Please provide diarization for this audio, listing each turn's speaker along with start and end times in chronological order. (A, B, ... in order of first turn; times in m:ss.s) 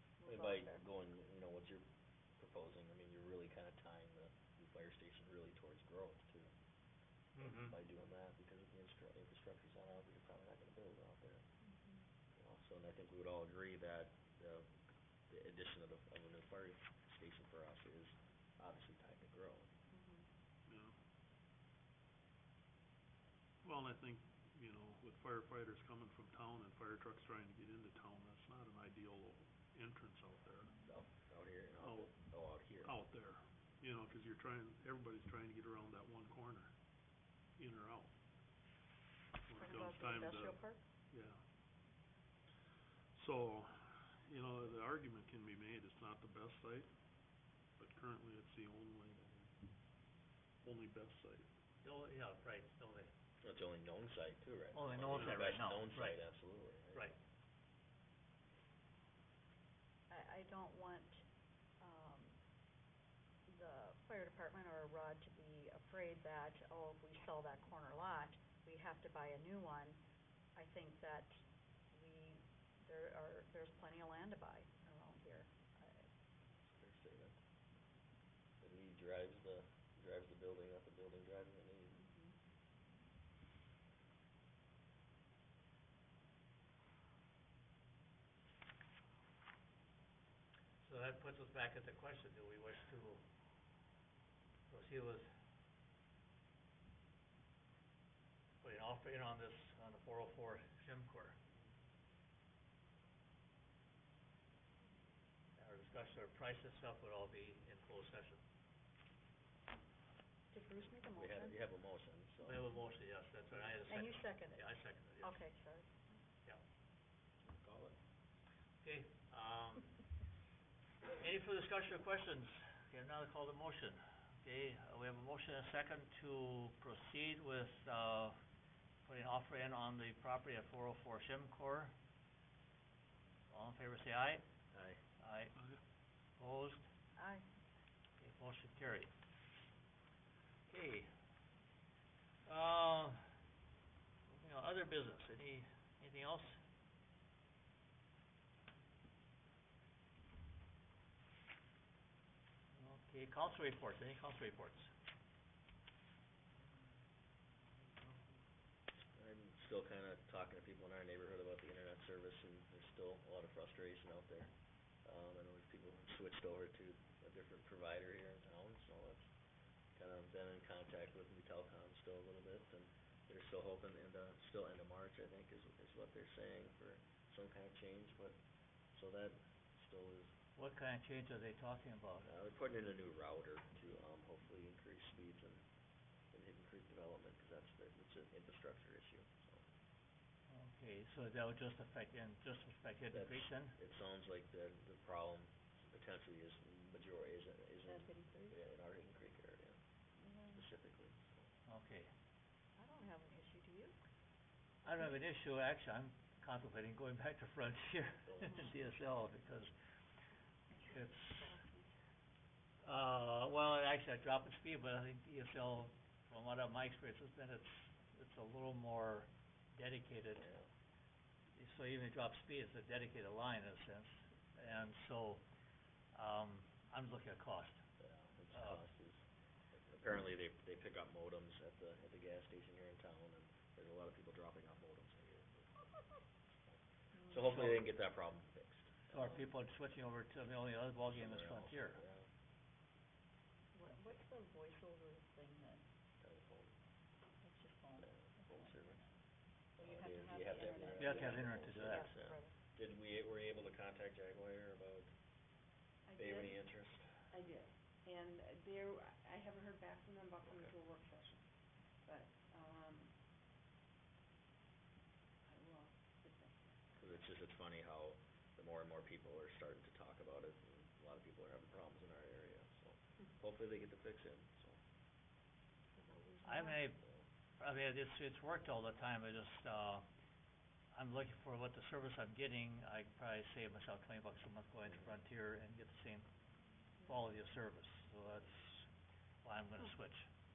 0:00.2-0:00.8 A
0:00.2-0:01.8 B
0:02.4-0:06.5 B
0:07.4-0:07.7 C
0:07.4-0:11.4 B
0:12.3-0:14.7 B
0:15.3-0:19.7 B
0:19.9-0:20.2 D
0:23.6-0:29.2 E
0:29.8-0:30.7 E
0:30.8-0:32.9 B
0:32.9-0:36.6 E
0:37.6-0:38.1 E
0:39.5-0:40.6 E
0:39.5-0:40.8 A
0:43.2-0:43.6 E
0:44.3-0:46.8 E
0:47.9-0:49.1 E
0:50.6-0:51.3 E
0:51.8-0:53.1 C
0:53.4-0:57.1 B
0:54.7-0:56.2 C
1:00.1-1:01.2 A
1:01.8-1:02.4 A
1:03.5-1:10.0 A
1:10.6-1:16.1 A
1:16.6-1:17.4 B
1:18.6-1:22.0 B
1:30.8-1:33.2 C
1:34.7-1:35.3 C
1:38.6-1:41.4 C
1:45.6-1:48.4 C
1:50.5-1:51.6 A
1:51.0-1:52.6 B
1:52.4-1:55.4 C
1:53.9-1:54.6 A
1:55.2-1:56.0 A
1:57.4-1:58.0 B
1:58.8-1:59.9 C
2:01.1-2:08.4 C
2:09.0-2:11.9 C
2:13.5-2:14.4 C
2:14.7-2:15.0 B
2:15.2-2:15.5 C
2:16.4-2:16.8 C
2:17.2-2:17.4 A
2:18.2-2:19.1 C
2:20.7-2:21.1 C
2:22.5-2:23.3 C
2:24.3-2:26.6 C
2:32.7-2:34.9 C
2:39.1-2:44.5 B
2:45.0-2:49.3 B
2:50.0-2:58.4 B
2:58.9-3:00.3 B
3:00.6-3:02.3 C
3:02.2-3:05.6 B
3:06.3-3:09.6 B
3:10.5-3:13.8 C
3:13.1-3:19.8 B
3:18.0-3:18.5 D
3:20.2-3:20.6 D
3:20.5-3:21.5 B
3:21.7-3:22.1 C
3:22.8-3:23.9 A
3:24.8-3:29.7 C
3:28.3-3:28.7 B
3:30.8-3:31.6 C
3:31.4-3:31.8 A
3:32.8-3:40.5 C
3:40.4-3:40.7 B
3:41.5-3:45.4 C
3:46.1-3:47.8 C
3:48.0-3:49.2 B
3:48.5-3:48.8 C
3:49.7-3:55.8 B
3:56.6-3:59.4 B
3:57.4-3:57.9 C
3:59.1-4:02.0 C
4:01.1-4:02.3 B
4:03.7-4:05.8 A
4:06.2-4:06.7 B
4:07.4-4:09.1 A
4:08.0-4:09.0 B
4:09.8-4:15.1 B
4:09.8-4:12.6 A
4:11.0-4:12.1 C
4:16.0-4:16.6 D
4:16.2-4:17.1 B
4:17.3-4:23.2 D
4:20.4-4:20.7 B
4:25.4-4:26.9 D
4:27.0-4:34.8 B
4:36.4-4:37.0 C
4:37.6-4:40.0 C
4:40.9-4:46.3 C
4:47.0-4:48.9 C
4:49.4-4:50.3 C